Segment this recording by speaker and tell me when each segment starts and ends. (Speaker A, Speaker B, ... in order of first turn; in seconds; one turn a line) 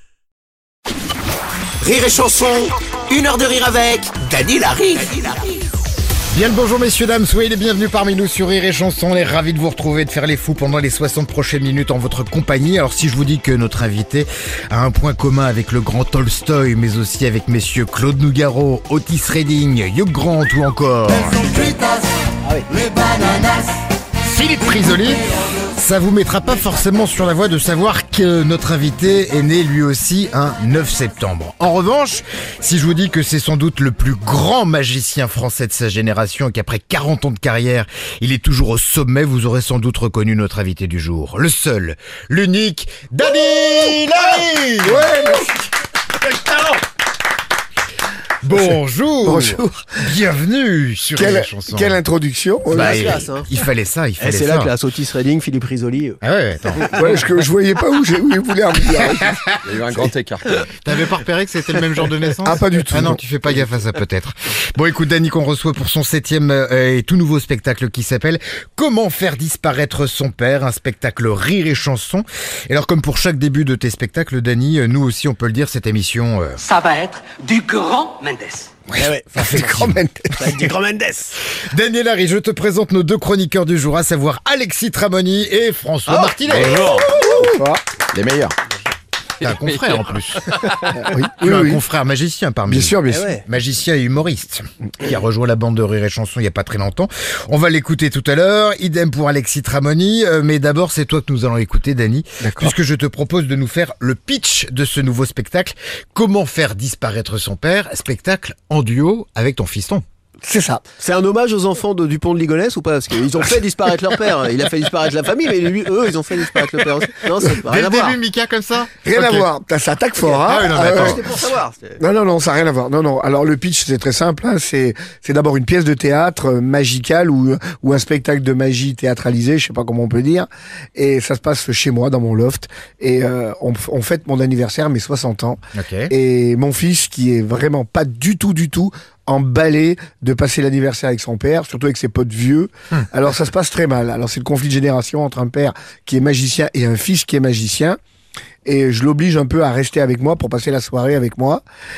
Speaker A: 1.8-5.6
Speaker B: 6.3-21.8
Speaker B: 24.2-45.1
Speaker C: 44.9-45.5
Speaker B: 48.4-52.0
Speaker C: 48.5-50.0
Speaker C: 51.1-53.1
Speaker D: 52.7-53.5
Speaker B: 52.7-54.7
Speaker D: 54.2-56.2
Speaker B: 56.2-57.2
Speaker C: 56.9-59.5
Speaker E: 59.6-60.6
Speaker B: 60.7-76.6
Speaker C: 62.4-63.2
Speaker F: 76.6-78.7
Speaker B: 78.9-80.0
Speaker D: 78.9-79.8
Speaker C: 79.3-80.5
Speaker D: 80.4-81.4
Speaker B: 81.6-86.9
Speaker E: 86.4-87.5
Speaker C: 86.9-87.8
Speaker E: 88.1-88.5
Speaker B: 89.4-90.8
Speaker C: 90.9-91.8
Speaker B: 91.4-110.0
Speaker C: 92.7-93.3
Speaker D: 93.1-93.4
Speaker C: 102.4-102.7
Speaker C: 110.4-110.9
Speaker D: 111.0-118.2
Speaker B: 117.6-119.5
Speaker C: 119.0-121.2
Speaker D: 120.2-122.0
Speaker B: 120.3-121.5
Speaker C: 122.0-148.0
Speaker B: 135.8-136.1
Speaker C: 148.7-151.6